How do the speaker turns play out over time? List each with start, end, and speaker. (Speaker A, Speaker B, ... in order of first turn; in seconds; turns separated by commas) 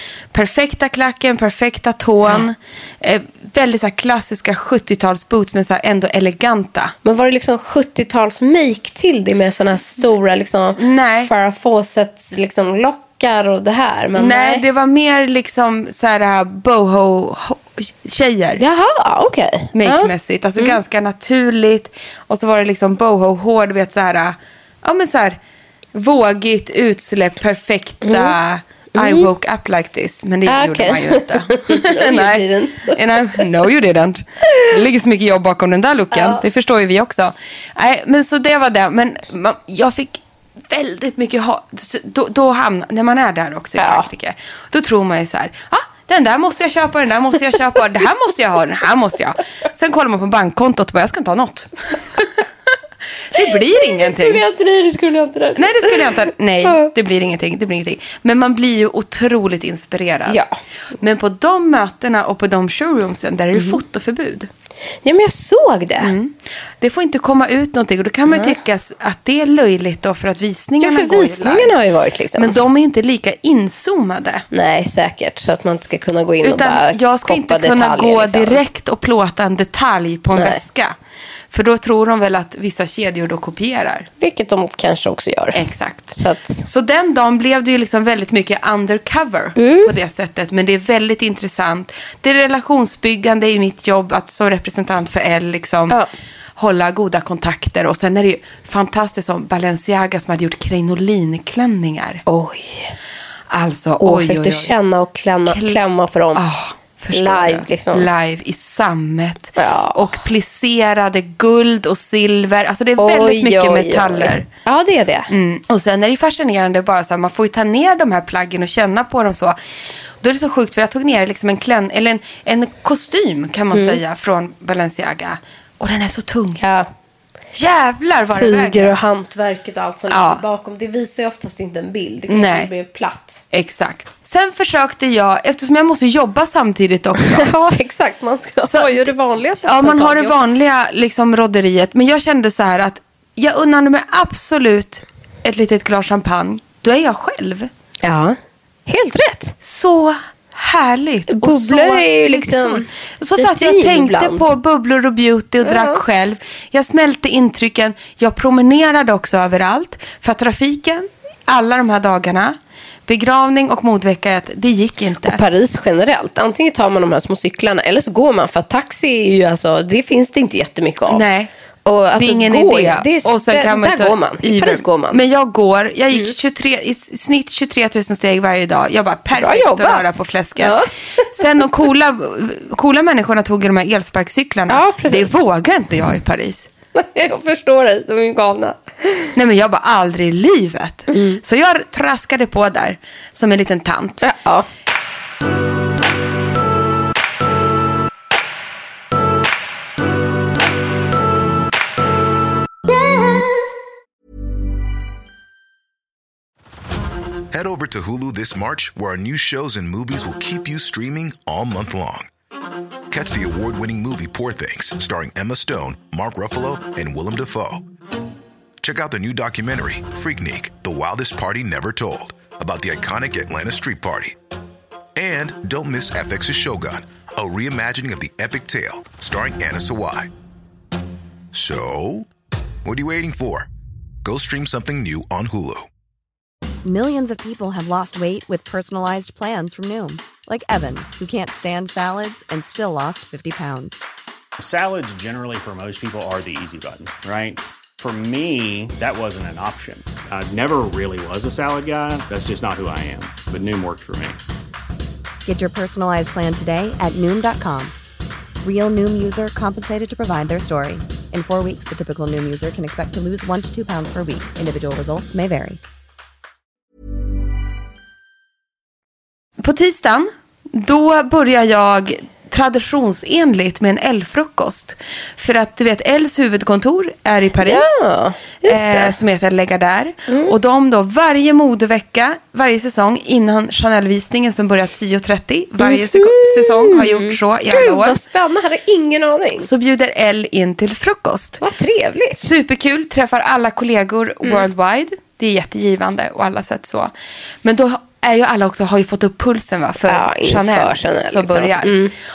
Speaker A: 0.3-7.0, Speaker B: 7.0-14.6, Speaker A: 10.8-11.3, Speaker A: 14.2-18.6, Speaker B: 18.6-20.8, Speaker A: 19.7-25.4, Speaker A: 25.9-52.4, Speaker B: 28.0-28.4, Speaker B: 29.0-29.3, Speaker B: 30.5-33.4, Speaker B: 36.1-36.4, Speaker B: 43.8-44.1, Speaker A: 53.3-54.4, Speaker B: 53.3-56.9, Speaker A: 55.6-60.4, Speaker A: 61.0-64.5, Speaker B: 65.0-66.2, Speaker A: 66.0-71.8, Speaker B: 68.3-68.6, Speaker B: 70.8-72.6, Speaker A: 72.4-74.5, Speaker B: 74.5-78.6, Speaker A: 76.4-81.0, Speaker B: 80.3-80.6, Speaker A: 81.5-84.1, Speaker B: 84.2-85.6, Speaker A: 85.5-96.0, Speaker B: 86.1-86.7, Speaker B: 89.6-89.9, Speaker A: 96.6-102.2, Speaker B: 102.3-102.9, Speaker A: 103.5-104.7, Speaker B: 104.0-106.4, Speaker A: 105.5-105.8, Speaker A: 106.3-114.5, Speaker B: 107.1-108.1, Speaker B: 109.6-110.1, Speaker B: 113.0-115.3, Speaker A: 115.3-119.6, Speaker A: 120.2-126.6, Speaker B: 123.7-124.0, Speaker B: 126.6-126.9, Speaker A: 127.5-128.9, Speaker B: 128.3-133.4, Speaker A: 130.1-130.4, Speaker A: 132.3-132.7, Speaker A: 133.5-137.5, Speaker B: 137.2-140.4, Speaker A: 138.6-139.1, Speaker A: 139.6-147.7, Speaker B: 148.0-149.6, Speaker A: 149.6-165.4, Speaker B: 151.3-152.8, Speaker B: 153.4-154.5, Speaker B: 155.6-156.0, Speaker B: 165.2-171.3, Speaker A: 171.1-171.5, Speaker B: 171.9-175.2, Speaker A: 172.2-180.8, Speaker B: 179.3-181.4, Speaker A: 181.3-186.7, Speaker B: 184.7-185.3, Speaker B: 187.0-189.3, Speaker A: 189.4-194.2, Speaker B: 191.1-191.4, Speaker B: 194.2-194.7, Speaker C: 207.5-212.3, Speaker C: 213.1-217.8, Speaker C: 218.8-224.4, Speaker C: 225.2-230.3, Speaker C: 231.5-232.3, Speaker C: 232.8-233.7, Speaker C: 234.2-235.9, Speaker D: 236.8-244.0, Speaker E: 244.6-254.4, Speaker D: 255.5-257.9, Speaker D: 258.6-265.8, Speaker A: 269.6-278.0, Speaker B: 277.6-279.2, Speaker A: 278.7-288.2, Speaker B: 280.3-280.6, Speaker B: 285.8-289.7, Speaker A: 289.6-291.6, Speaker B: 291.6-292.5, Speaker A: 292.4-297.1, Speaker A: 297.6-302.0, Speaker B: 300.1-302.1